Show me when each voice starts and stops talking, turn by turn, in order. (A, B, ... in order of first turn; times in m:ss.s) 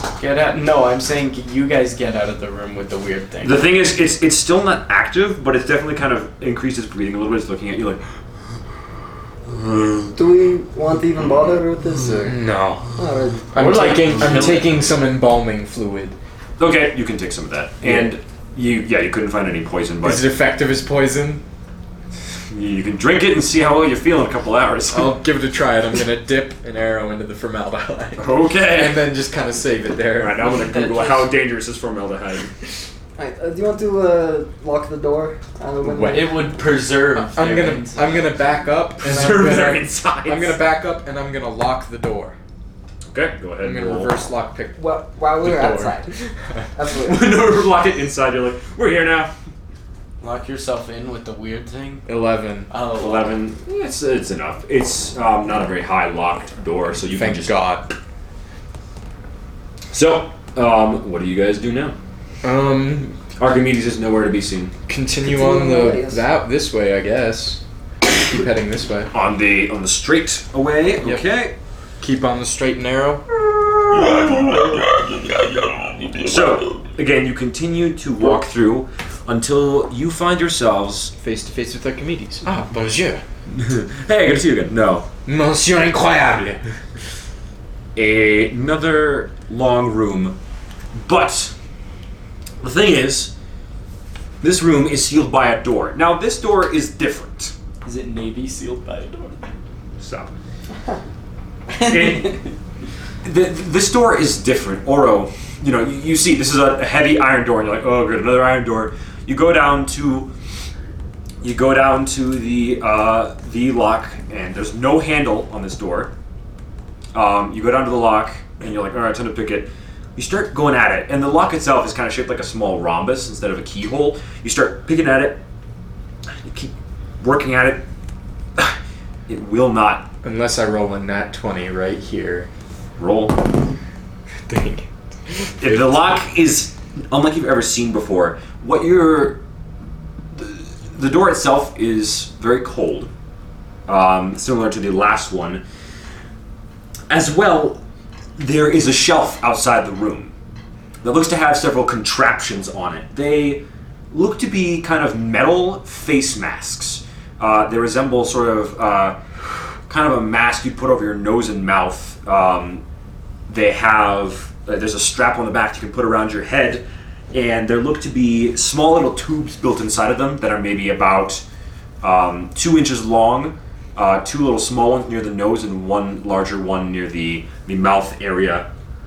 0:00.2-0:03.6 A
0:03.4-0:08.0 B
0:09.5-0:10.1 B
0:10.1-0:12.4 C
0:12.2-0:12.9 D
0:12.9-0:13.5 C
0:13.5-0:16.1 D
0:13.6-0:14.7 A
0:14.2-0:14.6 B
0:16.6-0:20.3 B
0:17.8-0:18.1 D
0:20.0-0:21.4 D
0:22.5-0:25.2 B
0:24.9-0:30.6 D
0:28.2-0:29.0 B
0:30.2-0:32.5 B
0:30.4-0:31.3 A
0:33.2-0:36.4 C
0:36.0-0:38.3 A
0:37.1-0:42.4 D
0:39.0-0:40.6 B
0:43.1-0:44.1 B
0:43.6-0:46.6 D
0:44.8-0:46.1 C
0:46.7-0:47.3 C
0:47.0-0:49.3 B
0:50.2-0:52.0 A
0:52.0-0:52.7 D
0:52.7-0:53.3 A
0:53.0-0:57.5 B
0:57.1-0:57.9 D
0:59.9-1:02.0 B
1:02.4-1:03.2 D
1:03.4-1:04.7 B
1:04.9-1:07.6 D
1:05.3-1:06.2 C
1:08.1-1:09.1 D
1:09.1-1:11.5 B
1:12.0-1:13.2 D
1:13.5-1:14.8 B
1:16.2-1:21.1 B
1:21.2-1:23.2 D
1:23.5-1:25.1 B
1:25.2-1:26.6 D
1:28.0-1:30.4 B
1:31.0-1:31.5 B
1:32.6-1:33.3 B
1:34.4-1:37.5 B
1:37.8-1:39.5 A
1:40.0-1:40.3 B
1:41.8-1:42.5 B
1:43.2-1:50.3 B
1:51.4-1:56.1 B
1:57.1-2:05.4 B
2:06.4-2:07.8 B
2:09.3-2:10.1 B
2:10.2-2:12.5 D
2:13.0-2:13.5 B
2:14.5-2:15.8 D
2:15.6-2:19.4 B
2:20.3-2:23.1 B
2:23.9-2:25.6 B
2:27.1-2:27.8 B
2:28.4-2:30.3 B
2:31.0-2:39.2 B
2:39.9-2:42.8 B
2:43.5-2:51.4 B
2:52.0-2:58.7 B